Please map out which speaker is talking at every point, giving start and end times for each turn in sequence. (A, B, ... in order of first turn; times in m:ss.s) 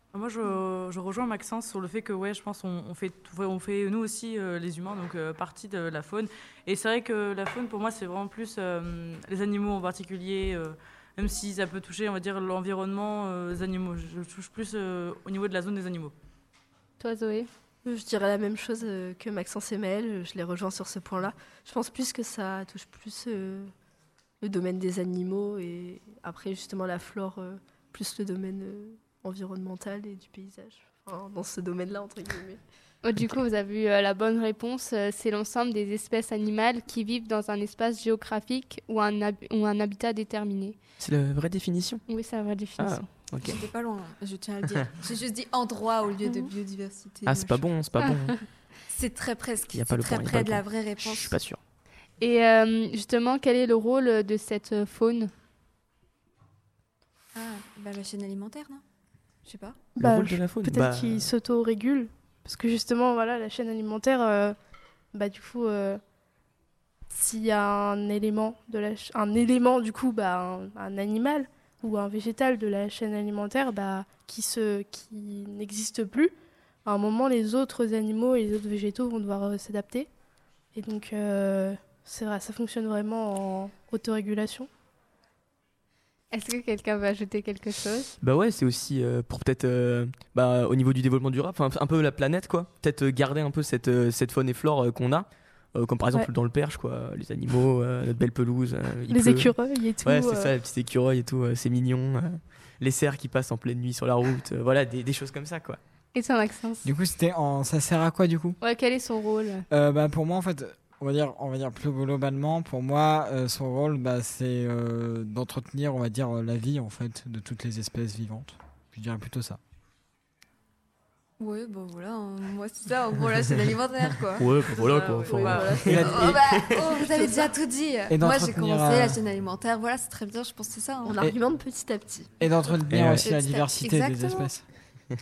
0:00.1-0:16.1 A
0:17.0-0:17.5 B
0:17.8-0:23.7 C
0:24.4-0:32.6 C
0:33.0-0:40.8 B
0:41.0-0:42.0 D
0:42.1-0:43.1 B
0:42.8-0:43.6 D
0:43.4-0:47.7 E
0:47.2-0:48.4 D
0:48.0-0:48.4 B
0:48.9-0:51.4 E
0:49.7-0:51.6 D
0:52.2-0:55.3 B
0:57.3-0:58.8 E
0:59.4-0:59.8 E
1:00.0-1:04.6 F
1:00.0-1:01.3 D
1:05.1-1:06.0 F
1:07.1-1:16.3 F
1:16.8-1:20.1 F
1:20.7-1:24.7 F
1:26.3-1:28.1 B
1:28.2-1:45.8 D
1:39.1-1:40.5 F
1:46.1-1:46.9 B
1:46.8-1:48.6 G
1:48.6-1:49.6 B
1:49.7-1:59.6 G
2:01.4-2:04.5 E
2:04.4-2:06.8 D
2:04.7-2:05.9 A
2:04.7-2:06.0 C
2:05.8-2:06.4 G
2:06.0-2:11.3 E
2:07.0-2:07.5 C
2:08.1-2:09.2 G
2:11.0-2:12.3 C
2:12.4-2:14.6 G
2:12.9-2:13.3 D
2:13.2-2:14.5 E